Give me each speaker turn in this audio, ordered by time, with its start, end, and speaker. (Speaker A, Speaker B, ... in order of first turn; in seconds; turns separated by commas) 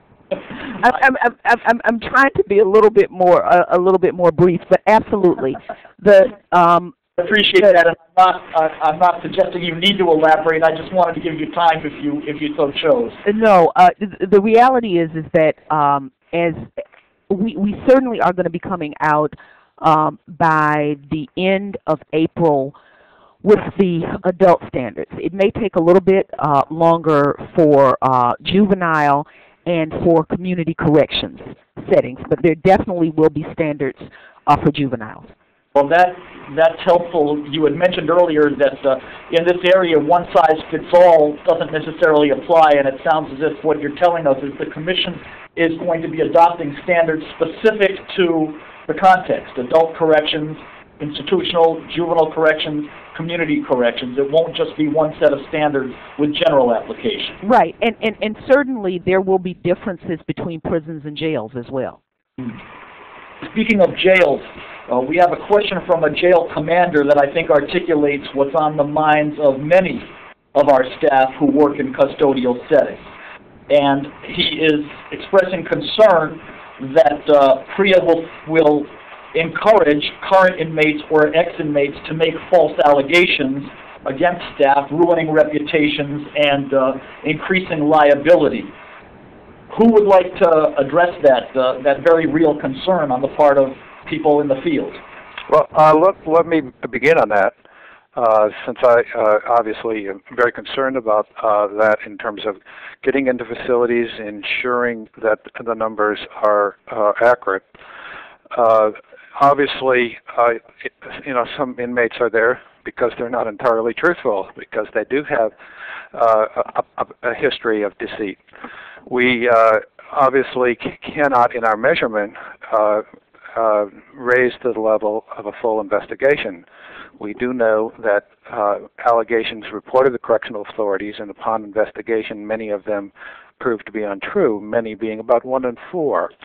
Speaker A: 0.8-7.0, Speaker B: 7.2-13.2, Speaker A: 13.2-16.7, Speaker A: 17.3-22.7, Speaker A: 23.4-35.3, Speaker B: 35.8-57.4, Speaker A: 57.4-62.0, Speaker B: 63.4-73.0, Speaker B: 73.7-88.7, Speaker B: 89.7-95.0, Speaker C: 95.5-97.5, Speaker C: 98.2-107.7, Speaker C: 108.5-115.5, Speaker C: 116.1-118.4, Speaker C: 119.1-126.6, Speaker C: 127.2-136.3